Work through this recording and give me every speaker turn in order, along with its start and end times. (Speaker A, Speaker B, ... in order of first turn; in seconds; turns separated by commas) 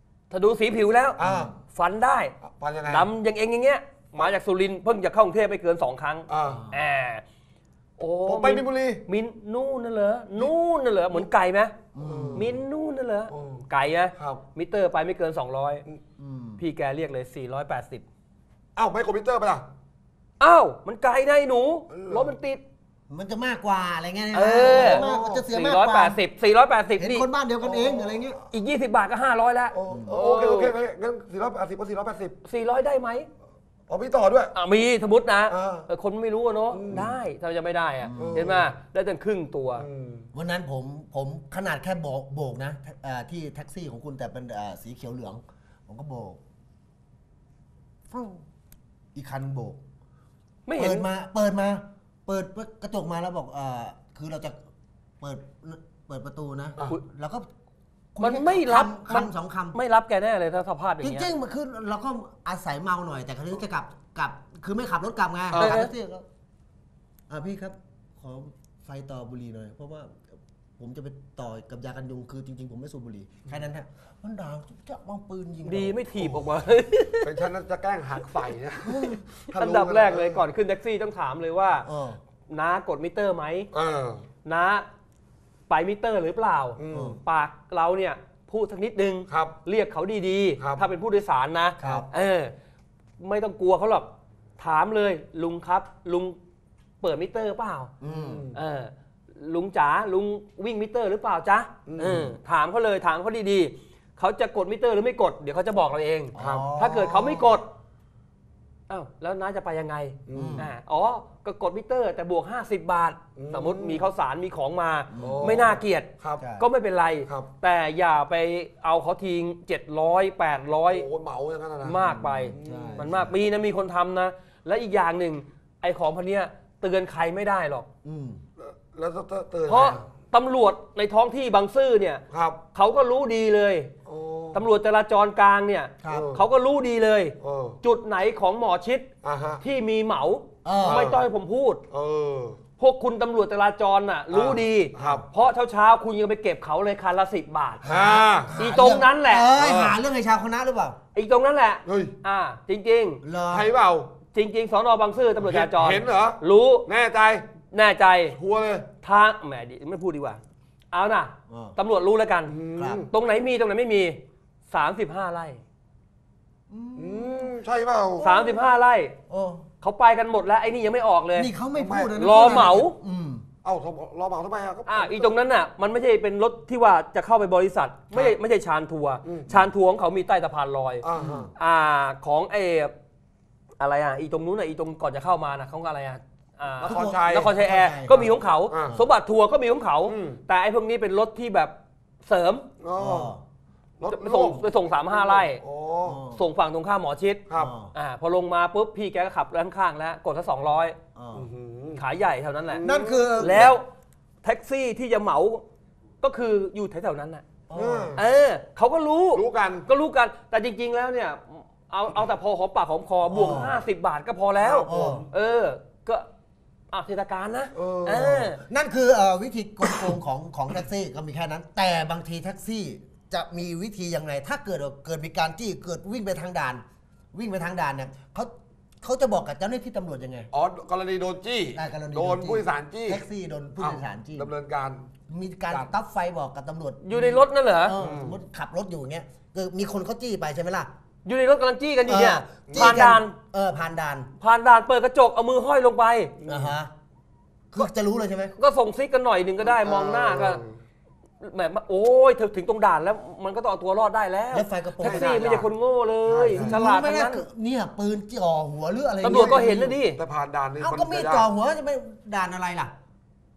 Speaker A: 0.3-1.2, Speaker B: 1.2-1.5, Speaker C: 1.2-1.5, Speaker A: 1.7-7.2, Speaker B: 2.4-3.1, Speaker B: 6.3-6.7, Speaker C: 6.5-6.8, Speaker A: 8.0-11.7, Speaker B: 8.2-9.0, Speaker C: 11.9-12.5, Speaker B: 12.0-12.5, Speaker A: 12.3-15.8, Speaker B: 13.3-13.7, Speaker B: 14.2-14.4, Speaker C: 16.2-16.6, Speaker A: 16.6-18.0, Speaker B: 18.8-19.6, Speaker A: 20.4-22.6, Speaker B: 21.9-22.3, Speaker C: 23.1-26.2, Speaker A: 24.3-27.3, Speaker B: 24.6-25.4, Speaker C: 26.9-28.4, Speaker B: 27.6-28.4, Speaker A: 28.5-30.7, Speaker B: 29.7-32.3, Speaker C: 29.9-30.2, Speaker A: 32.4-33.3, Speaker B: 33.9-34.5, Speaker A: 34.5-39.8, Speaker B: 35.5-35.9, Speaker B: 36.7-37.1, Speaker C: 38.0-38.5, Speaker B: 38.1-38.7, Speaker B: 39.8-40.3, Speaker C: 40.3-46.4, Speaker C: 48.1-48.4, Speaker C: 49.1-49.8, Speaker A: 50.6-51.1, Speaker C: 50.7-54.5, Speaker C: 55.2-57.5, Speaker C: 58.1-59.8, Speaker A: 58.2-61.3, Speaker C: 61.0-66.2, Speaker B: 65.5-65.8, Speaker A: 65.6-65.9, Speaker C: 67.3-70.2, Speaker C: 70.8-76.3, Speaker A: 75.6-77.3, Speaker B: 77.2-80.4, Speaker C: 78.8-79.2, Speaker A: 79.5-81.9, Speaker C: 81.8-82.2, Speaker A: 82.5-83.7, Speaker B: 83.7-84.2, Speaker A: 84.4-84.8, Speaker A: 85.7-92.5, Speaker B: 86.8-87.2, Speaker C: 86.9-87.2, Speaker B: 89.3-89.5, Speaker B: 90.6-90.8, Speaker C: 91.8-92.1, Speaker A: 93.2-96.4, Speaker A: 97.0-97.9, Speaker C: 98.0-98.5, Speaker B: 98.0-98.6, Speaker A: 98.5-107.7, Speaker B: 101.9-102.3, Speaker C: 102.0-102.3, Speaker C: 106.3-107.6, Speaker B: 106.4-106.7, Speaker A: 108.9-121.0, Speaker B: 110.3-110.7, Speaker C: 110.3-110.7, Speaker B: 113.4-114.1, Speaker C: 115.1-115.7, Speaker B: 115.2-116.4, Speaker C: 116.4-116.7, Speaker B: 120.9-123.1, Speaker A: 121.8-127.9, Speaker C: 122.0-123.3, Speaker C: 128.0-128.4, Speaker B: 128.6-130.1, Speaker A: 129.7-132.2, Speaker B: 132.3-132.6, Speaker A: 132.7-133.9, Speaker B: 134.1-134.7, Speaker A: 134.5-139.1, Speaker C: 136.0-136.3, Speaker B: 136.1-136.4, Speaker B: 137.4-137.8, Speaker B: 139.2-139.6, Speaker A: 139.6-141.8, Speaker C: 140.6-141.1, Speaker B: 140.8-141.2, Speaker B: 141.9-142.6, Speaker A: 142.8-147.8, Speaker B: 144.3-145.2, Speaker C: 147.8-151.0, Speaker B: 147.8-148.6, Speaker A: 148.6-149.5, Speaker B: 149.6-150.0, Speaker A: 151.1-153.2, Speaker B: 151.8-152.2, Speaker C: 153.2-153.7, Speaker B: 153.5-154.1, Speaker A: 154.3-156.8, Speaker B: 155.4-157.5, Speaker A: 157.7-158.3, Speaker B: 158.3-158.9, Speaker A: 159.0-160.4, Speaker A: 160.9-162.5, Speaker C: 161.5-161.8, Speaker B: 162.5-163.1, Speaker C: 162.8-163.0, Speaker A: 163.1-165.6, Speaker C: 166.7-167.5, Speaker B: 166.9-168.3, Speaker A: 168.2-169.1, Speaker C: 168.2-168.6, Speaker C: 169.3-169.6, Speaker A: 169.8-171.5, Speaker C: 171.3-173.4, Speaker B: 171.7-172.7, Speaker A: 172.2-172.9, Speaker B: 173.6-175.3, Speaker A: 174.8-181.0, Speaker B: 179.2-179.7, Speaker B: 181.0-181.5, Speaker C: 181.1-181.5, Speaker A: 181.6-182.9, Speaker A: 183.8-192.6, Speaker B: 186.8-187.6, Speaker C: 186.9-188.3, Speaker B: 188.7-189.0, Speaker B: 190.1-190.4, Speaker B: 192.8-193.3, Speaker C: 192.9-193.4, Speaker B: 194.0-196.2, Speaker A: 194.1-195.6, Speaker C: 196.0-196.4, Speaker A: 196.3-197.4, Speaker C: 197.5-197.9, Speaker A: 197.9-200.9, Speaker C: 201.2-201.5, Speaker B: 201.3-202.0, Speaker A: 201.9-202.8, Speaker B: 202.7-203.7, Speaker C: 202.8-203.7, Speaker A: 203.4-203.8, Speaker A: 204.4-205.6, Speaker A: 206.2-207.4, Speaker C: 207.7-208.2, Speaker B: 207.7-208.2, Speaker A: 208.1-216.3, Speaker B: 209.3-209.9, Speaker C: 213.3-213.8, Speaker C: 214.6-215.3, Speaker B: 214.8-215.3, Speaker A: 216.9-218.6, Speaker B: 217.7-218.4, Speaker C: 218.2-230.5, Speaker B: 230.5-233.2, Speaker C: 231.7-234.5, Speaker B: 233.8-235.1, Speaker C: 235.3-240.9, Speaker A: 237.0-237.9, Speaker B: 238.0-238.4, Speaker A: 241.2-243.3, Speaker C: 242.1-244.3, Speaker B: 242.7-243.0, Speaker A: 244.4-246.3, Speaker B: 246.4-246.7, Speaker C: 246.5-246.9, Speaker C: 247.7-248.5, Speaker A: 248.6-250.6, Speaker B: 249.6-250.7, Speaker A: 251.4-257.4, Speaker C: 254.5-255.7, Speaker B: 255.0-255.6, Speaker B: 256.2-256.8, Speaker C: 256.5-260.0, Speaker A: 259.2-260.2, Speaker B: 259.3-261.5, Speaker C: 260.8-262.9